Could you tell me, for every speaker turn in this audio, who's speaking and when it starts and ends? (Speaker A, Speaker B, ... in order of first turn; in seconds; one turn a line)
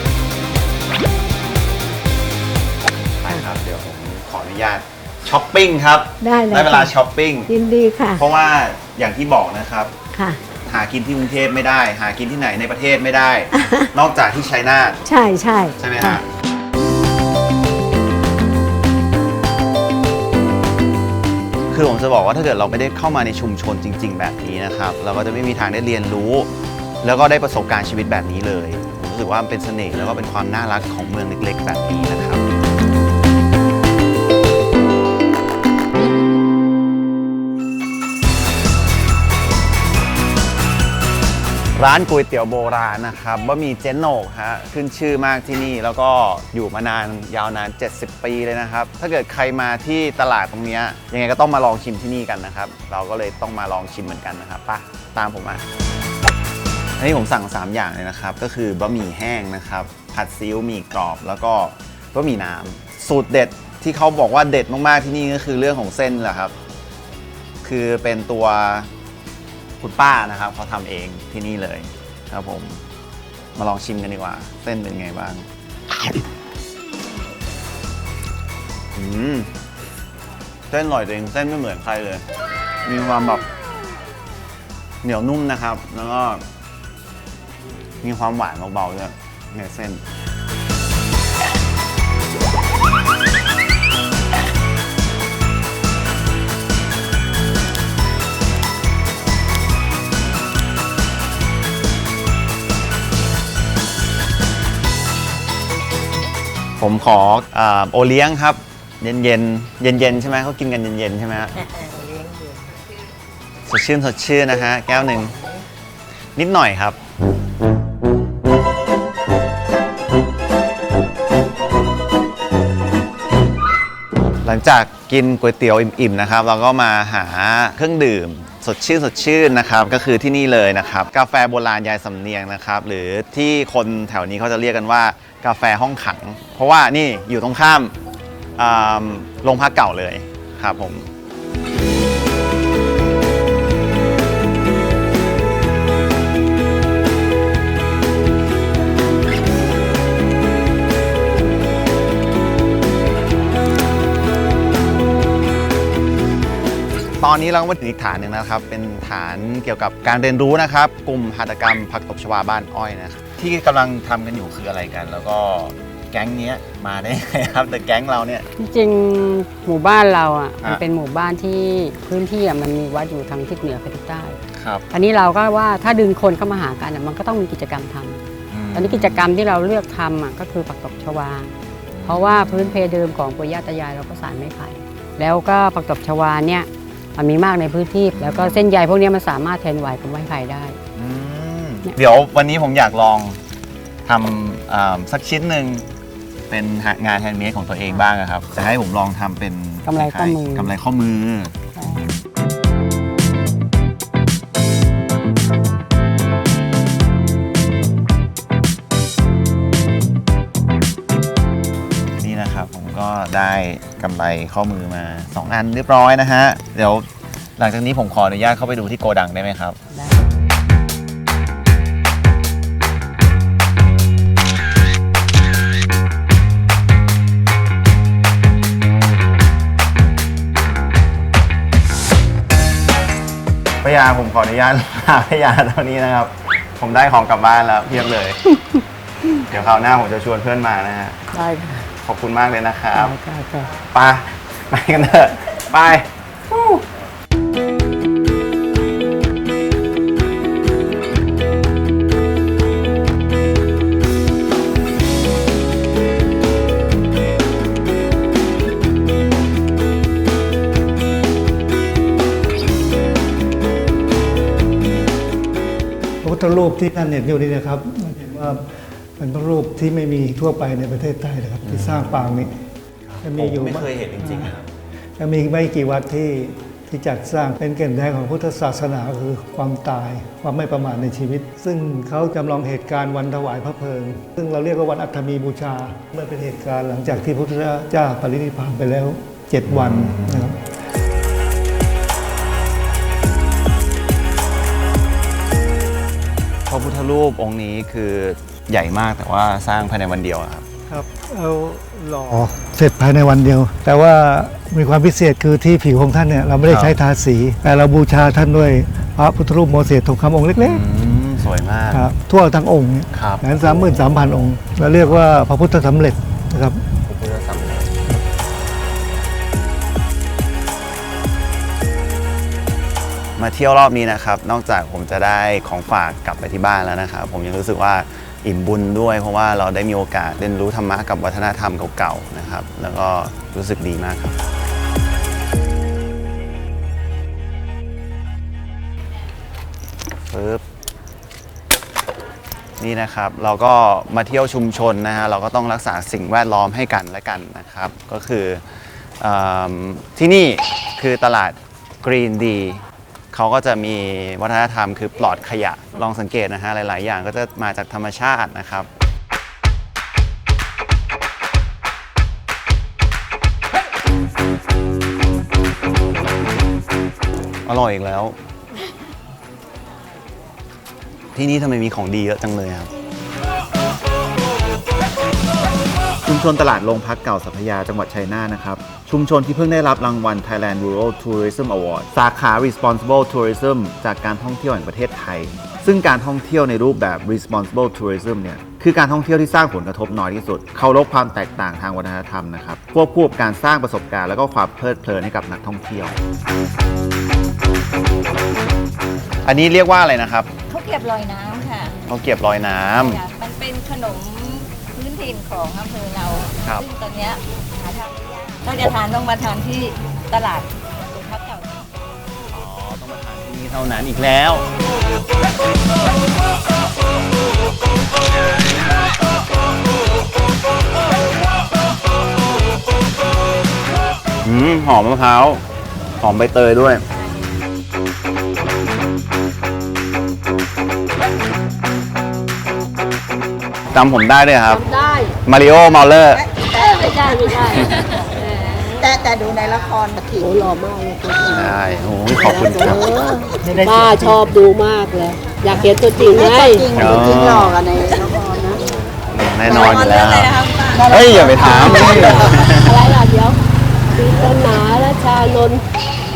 Speaker A: 3.2-7.5
Speaker B: 6.2-6.9
Speaker B: 7.5-8.2
Speaker A: 8.2-9.9
Speaker B: 10.1-10.4
Speaker A: 10.7-15.0
Speaker B: 13.5-13.9
Speaker B: 15.1-16.2
Speaker A: 15.8-16.3
Speaker A: 21.7-26.5
Speaker A: 27.0-32.4
Speaker A: 41.8-55.6
Speaker A: 57.0-66.5
Speaker A: 67.6-68.9
Speaker A: 69.8-72.8
Speaker A: 73.6-75.4
Speaker A: 79.0-79.5
Speaker A: 80.7-82.2
Speaker A: 82.8-83.5
Speaker A: 85.0-86.4
Speaker A: 88.0-90.0
Speaker A: 106.8-111.7
Speaker A: 113.7-115.5
Speaker A: 116.4-117.0
Speaker A: 124.5-138.0
Speaker A: 138.6-141.1
Speaker A: 157.2-168.5
Speaker C: 168.6-174.4
Speaker A: 174.6-174.8
Speaker C: 174.9-178.2
Speaker A: 178.5-179.3
Speaker C: 178.7-181.5
Speaker A: 181.9-182.8
Speaker C: 182.1-190.8
Speaker A: 188.1-188.7
Speaker A: 191.0-193.4
Speaker A: 194.1-195.8
Speaker A: 196.5-201.6
Speaker C: 199.8-200.7
Speaker C: 201.8-202.1
Speaker A: 212.2-217.1
Speaker A: 217.6-219.8
Speaker C: 219.9-220.2
Speaker A: 233.8-238.4
Speaker A: 239.4-241.2
Speaker C: 241.3-241.9
Speaker A: 242.0-243.2
Speaker C: 242.9-243.8
Speaker A: 243.8-246.8
Speaker D: 266.2-268.6
Speaker D: 269.2-272.5
Speaker A: 271.6-272.4
Speaker A: 273.1-274.7
Speaker D: 273.2-274.5
Speaker D: 275.2-290.6
Speaker A: 289.7-290.5
Speaker A: 296.7-300.6
Speaker D: 300.9-310.8
Speaker A: 306.7-307.0
Speaker A: 310.6-312.1
Speaker D: 311.9-316.8
Speaker A: 313.1-314.2
Speaker A: 317.1-318.0
Speaker A: 323.4-334.4
Speaker A: 340.3-340.6
Speaker A: 342.8-348.6
Speaker A: 349.2-358.9
Speaker A: 367.7-368.4
Speaker A: 371.4-372.9
Speaker A: 376.2-396.2
Speaker A: 399.4-400.5
Speaker E: 400.7-401.9
Speaker A: 402.1-403.2
Speaker E: 403.1-411.7
Speaker A: 406.6-406.9
Speaker A: 412.5-414.7
Speaker A: 424.4-425.6
Speaker A: 426.2-427.0
Speaker A: 433.9-434.8
Speaker A: 435.4-436.5
Speaker F: 436.7-437.6
Speaker G: 436.8-437.8
Speaker E: 437.2-438.2
Speaker A: 437.7-438.1
Speaker F: 438.9-441.7
Speaker G: 440.4-441.7
Speaker A: 441.4-443.1
Speaker F: 442.4-448.8
Speaker G: 443.3-446.9
Speaker D: 443.8-444.0
Speaker A: 446.9-447.8
Speaker A: 449.3-453.1
Speaker E: 449.7-452.0
Speaker F: 450.9-453.3
Speaker G: 453.1-453.5
Speaker F: 454.2-455.8
Speaker G: 454.2-455.8